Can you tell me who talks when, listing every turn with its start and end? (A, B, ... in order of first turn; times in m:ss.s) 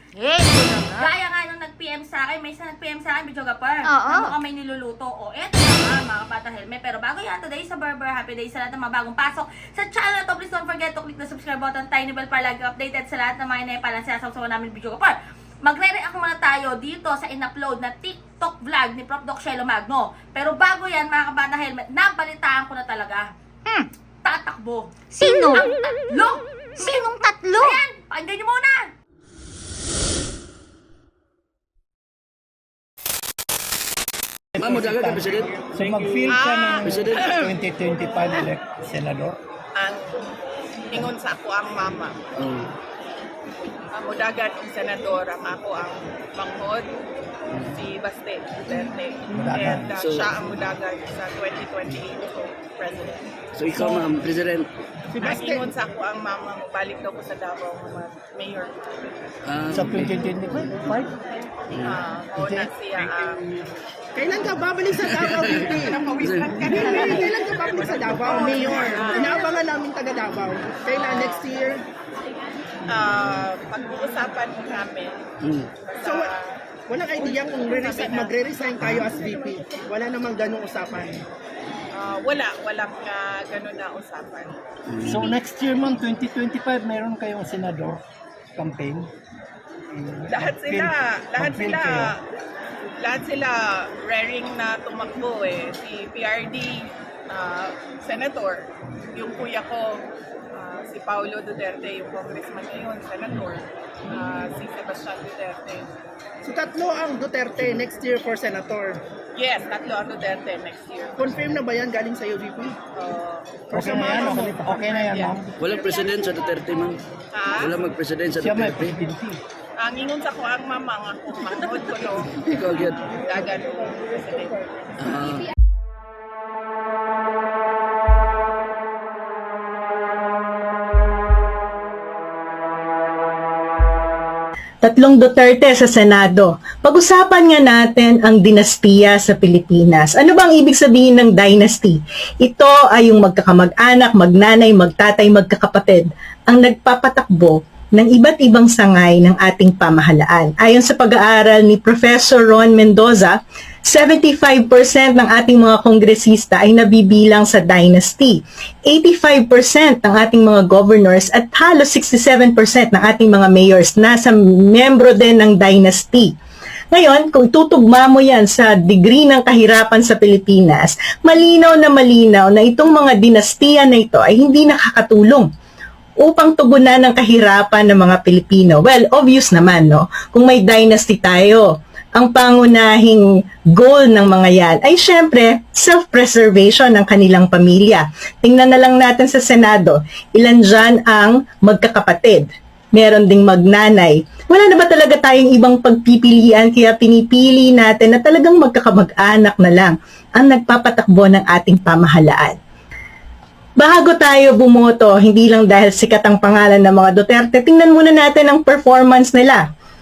0:00.2-0:01.1 A
0:01.0-0:23.3 B
0:03.9-0:04.3 A
0:24.2-0:27.1 B
0:25.1-0:25.7 A
0:26.8-0:27.8 A
0:27.6-0:28.9 B
0:34.5-0:39.4 C
0:34.6-0:36.3 D
0:36.2-0:37.2 E
0:36.8-0:37.5 D
0:39.8-0:40.2 E
0:40.9-0:42.2 E
0:42.4-0:42.7 D
0:43.9-0:46.9 E
0:47.5-0:47.8 D
0:47.6-0:53.2 E
0:49.3-0:50.0 C
0:50.0-0:50.5 D
0:53.5-0:54.7 D
0:53.7-0:54.0 C
0:55.1-0:55.7 F
0:55.2-0:59.3 E
0:59.4-1:00.4 D
0:59.7-1:01.2 C
1:01.7-1:02.0 D
1:01.8-1:03.5 E
1:02.3-1:02.7 C
1:04.1-1:06.1 F
1:05.0-1:07.4 D
1:05.9-1:09.7 E
1:06.5-1:06.8 C
1:06.7-1:11.8 F
1:10.9-1:11.5 E
1:12.9-1:15.2 E
1:15.4-1:15.7 D
1:15.8-1:16.4 E
1:16.0-1:16.3 F
1:16.9-1:21.2 F
1:17.1-1:19.1 E
1:21.9-1:24.6 E
1:24.9-1:25.2 D
1:25.0-1:28.0 C
1:28.6-1:29.1 C
1:29.9-1:32.1 C
1:30.3-1:32.2 E
1:33.0-1:45.9 E
1:46.4-1:49.0 F
1:49.3-1:51.2 E
1:51.2-1:52.8 F
1:53.0-1:55.4 E
1:53.7-1:55.0 F
1:53.7-1:55.6 C
1:55.6-1:57.0 D
1:57.3-1:57.8 E
1:57.5-1:59.0 D
1:58.4-1:59.4 C
1:59.8-2:04.9 E
2:02.4-2:03.2 D
2:05.0-2:05.4 D
2:14.8-2:46.3 G
2:46.9-2:55.5 G
2:56.2-3:22.6 G
3:23.8-3:29.6 G